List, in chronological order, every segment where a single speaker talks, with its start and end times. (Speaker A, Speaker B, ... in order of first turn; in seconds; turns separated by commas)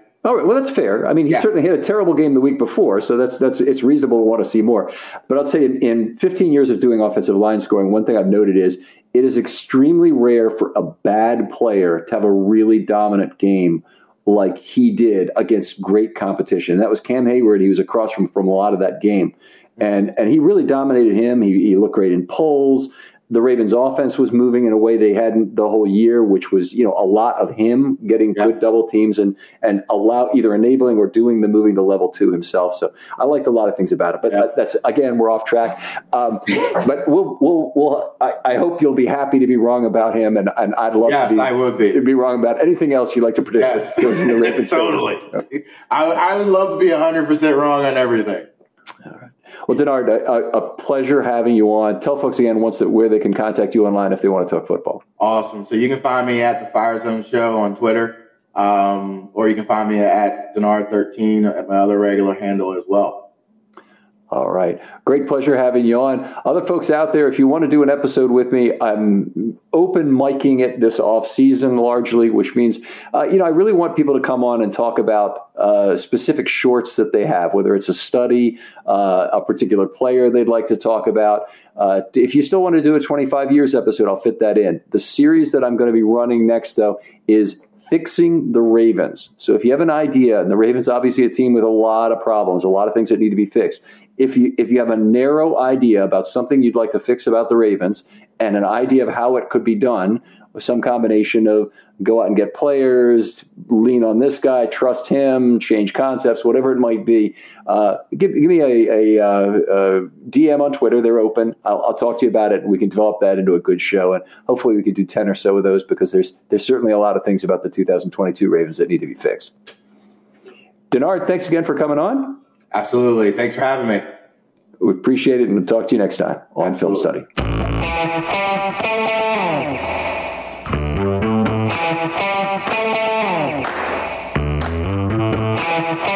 Speaker A: 0.2-45.4, Speaker B: 41.1-42.0, Speaker B: 43.6-48.5, Speaker A: 49.1-55.0, Speaker B: 55.2-63.3, Speaker A: 64.3-119.5, Speaker A: 120.9-122.4, Speaker B: 122.7-124.1, Speaker A: 124.8-127.3, Speaker B: 126.6-127.1